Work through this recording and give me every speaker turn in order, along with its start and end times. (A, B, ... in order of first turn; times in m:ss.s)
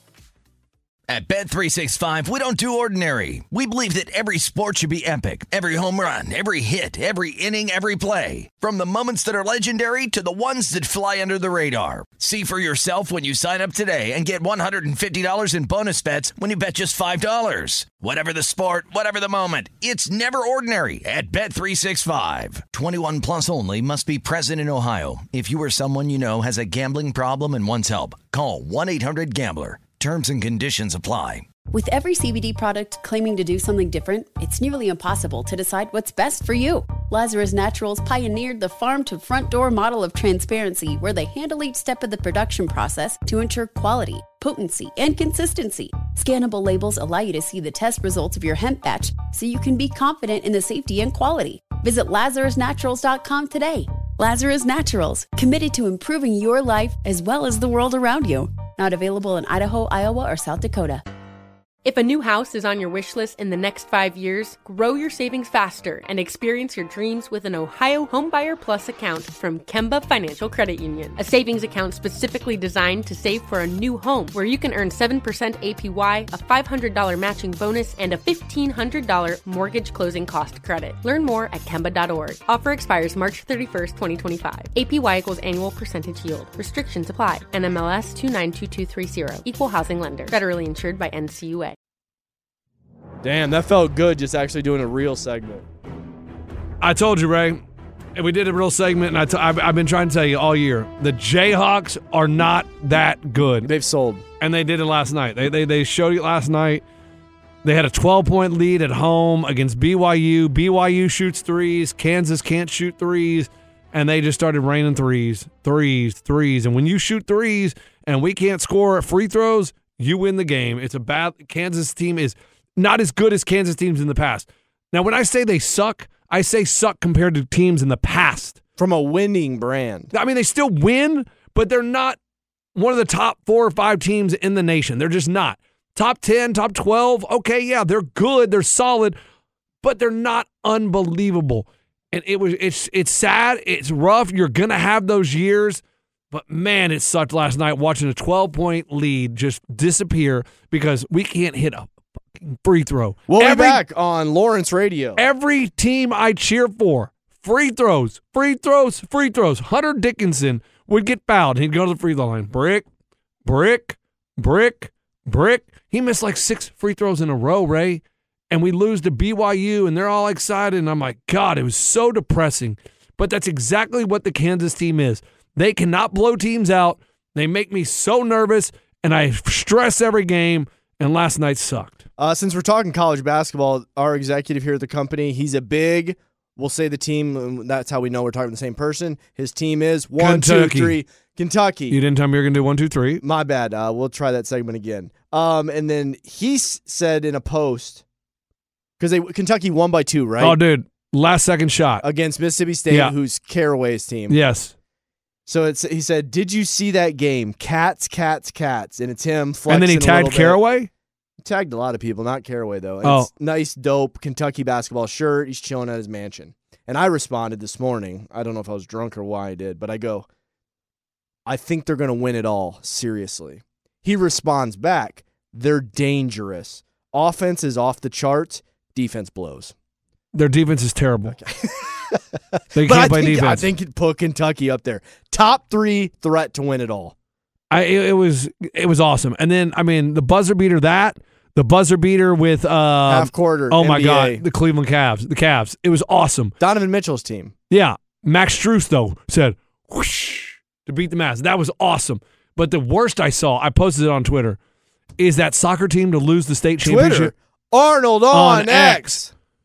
0:01.1-0:31.5 A
0:31.7-1:01.0 B
1:01.8-1:31.8 C
1:33.2-1:35.7 D
1:36.8-1:37.6 E
1:38.2-1:43.7 E
1:43.6-1:44.2 D
1:44.4-1:46.8 E
1:47.6-2:08.6 E
2:08.8-2:10.1 D
2:10.1-2:12.2 E
2:12.8-2:19.2 E
2:19.8-2:25.8 E
2:26.3-2:33.8 E
2:33.3-2:35.2 D
2:35.2-2:42.8 E
2:43.5-3:02.0 E
3:02.2-3:12.0 D
3:10.2-3:11.0 E
3:11.9-3:13.2 E
3:13.2-3:18.0 D
3:19.0-3:20.6 D
3:20.4-3:22.0 E
3:22.0-3:24.4 D
3:22.9-3:23.2 E
3:24.3-3:24.7 E
3:25.5-3:30.6 D
3:29.7-3:30.9 E
3:31.4-3:40.3 D
3:33.0-3:33.3 E
3:41.5-3:49.7 D
3:50.3-3:51.4 E
3:51.3-3:57.2 D
3:52.8-3:53.7 E
3:57.7-4:06.6 E
4:03.1-4:04.4 D
4:06.6-4:07.5 D
4:07.7-4:14.6 E
4:15.2-4:17.3 E
4:16.8-4:19.3 D
4:18.3-4:19.2 E